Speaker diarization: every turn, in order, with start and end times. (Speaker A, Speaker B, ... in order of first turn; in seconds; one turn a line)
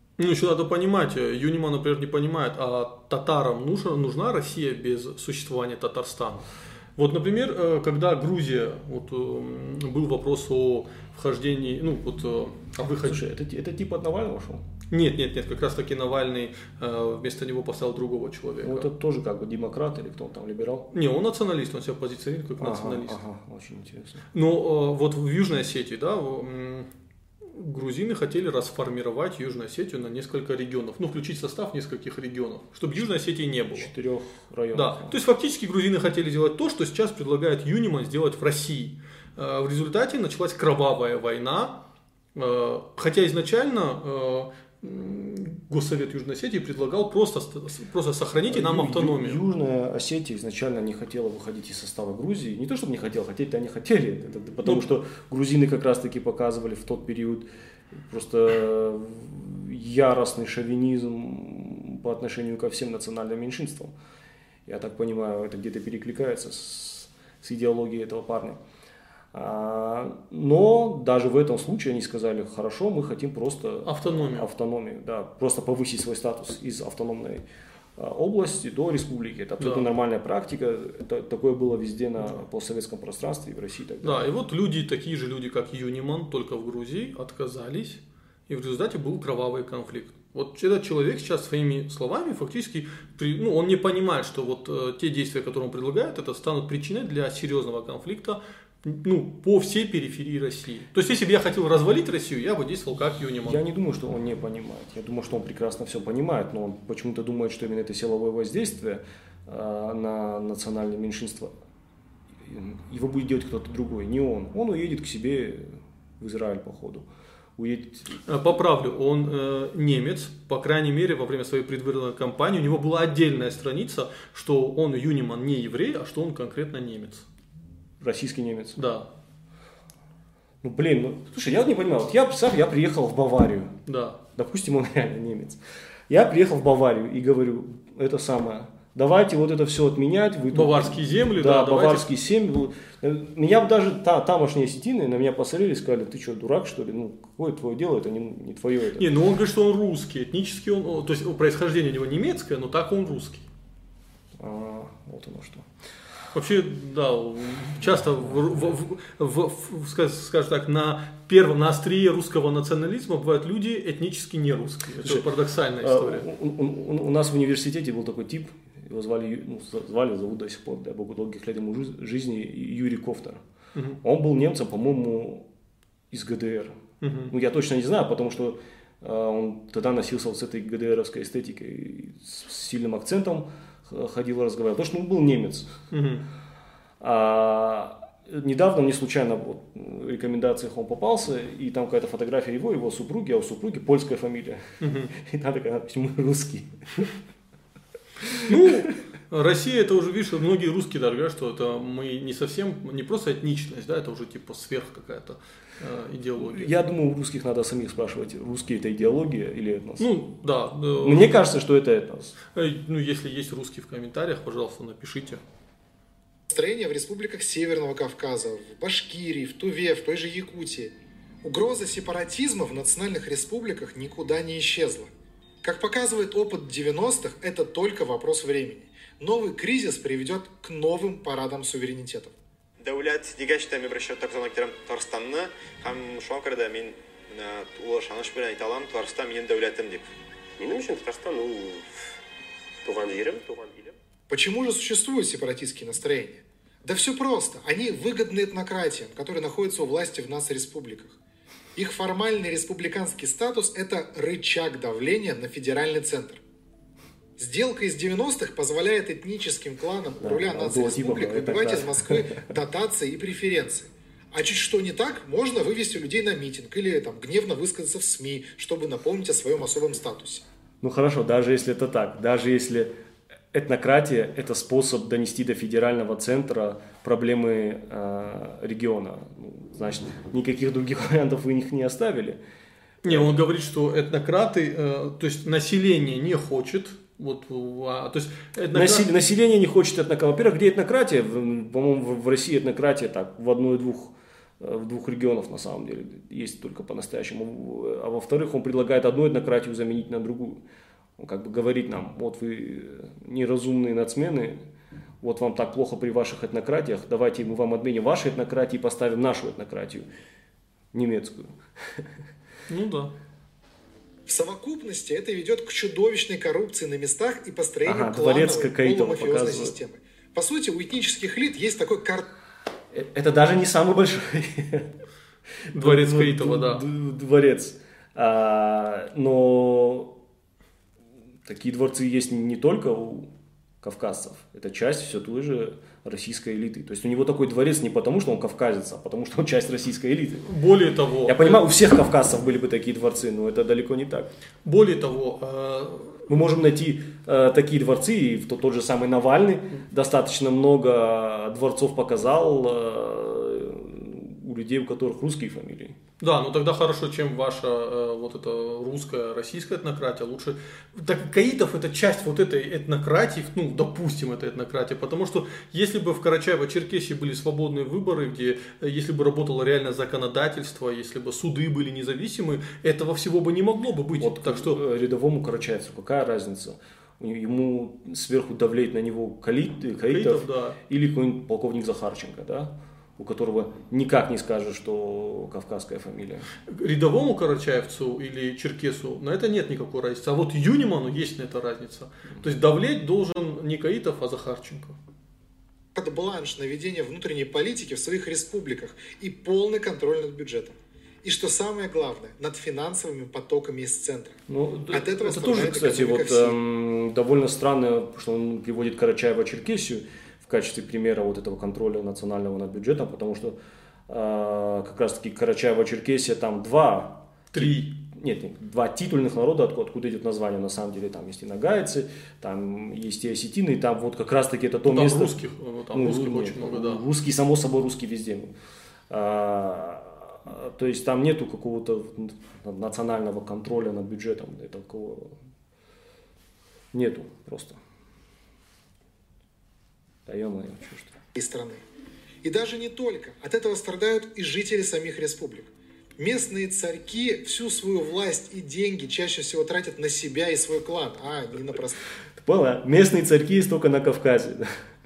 Speaker A: 0.2-13.2
Speaker B: 13.0-14.7
Speaker A: 14.9-18.9
Speaker B: 18.6-20.9
Speaker A: 20.9-23.2
Speaker B: 22.6-24.2
Speaker A: 24.3-26.9
Speaker A: 27.5-33.9
Speaker B: 33.7-35.2
Speaker A: 34.7-41.8
Speaker A: 42.3-49.4
Speaker B: 48.5-57.5
Speaker B: 58.1-63.9
Speaker B: 64.7-68.6
Speaker B: 69.3-77.4
Speaker A: 73.8-74.5
Speaker B: 78.0-84.2
Speaker A: 79.6-79.9
Speaker A: 84.0-103.6
Speaker B: 103.4-111.5
Speaker B: 112.4-118.2
Speaker A: 118.2-127.2
Speaker B: 128.0-128.8
Speaker A: 128.8-129.1
Speaker B: 130.6-133.8
Speaker A: 133.8-134.2
Speaker B: 134.3-149.1
Speaker A: 140.5-142.1
Speaker A: 149.0-153.4
Speaker B: 154.4-155.7
Speaker A: 156.3-166.3
Speaker B: 165.0-165.3
Speaker B: 165.8-173.4
Speaker A: 173.7-174.0
Speaker B: 174.0-175.5
Speaker B: 176.1-176.8
Speaker A: 177.0-177.3
Speaker B: 177.3-185.7
Speaker A: 185.9-186.2
Speaker B: 187.0-197.1
Speaker A: 194.8-195.1
Speaker B: 198.2-198.8
Speaker A: 198.5-206.7
Speaker B: 206.4-210.1
Speaker A: 210.0-211.4
Speaker B: 211.0-212.3
Speaker A: 212.5-215.4
Speaker C: 216.5-225.1
Speaker C: 225.6-232.3
Speaker D: 232.8-240.0
Speaker E: 240.6-241.8
Speaker D: 240.6-241.5
Speaker E: 242.8-243.9
Speaker D: 242.9-243.5
Speaker C: 244.3-251.2
Speaker C: 251.7-256.4
Speaker C: 257.4-270.4
Speaker B: 260.2-262.5
Speaker B: 270.8-272.9
Speaker B: 273.5-282.4
Speaker A: 283.0-289.1
Speaker B: 283.0-283.4
Speaker B: 288.7-300.6
Speaker B: 301.2-304.7
Speaker B: 305.2-310.1
Speaker B: 310.9-312.1
Speaker A: 312.7-313.1
Speaker C: 314.3-322.3
Speaker B: 317.8-319.7
Speaker B: 322.9-324.9
Speaker A: 325.7-326.8
Speaker B: 325.7-330.1
Speaker B: 331.4-333.3
Speaker B: 333.8-340.5
Speaker A: 340.4-341.6
Speaker B: 341.2-344.3
Speaker A: 344.6-346.2
Speaker B: 346.3-356.0
Speaker A: 356.2-374.8
Speaker B: 374.2-386.5
Speaker A: 380.1-380.8
Speaker A: 386.7-395.0
Speaker C: 395.9-406.6
Speaker B: 404.5-413.6
Speaker B: 414.1-428.5
Speaker A: 417.5-417.9
Speaker A: 424.9-427.0
Speaker B: 429.1-435.4
Speaker B: 436.9-437.8
Speaker B: 440.2-441.1
Speaker C: 441.3-441.8
Speaker C: 442.4-452.0
Speaker B: 452.4-454.7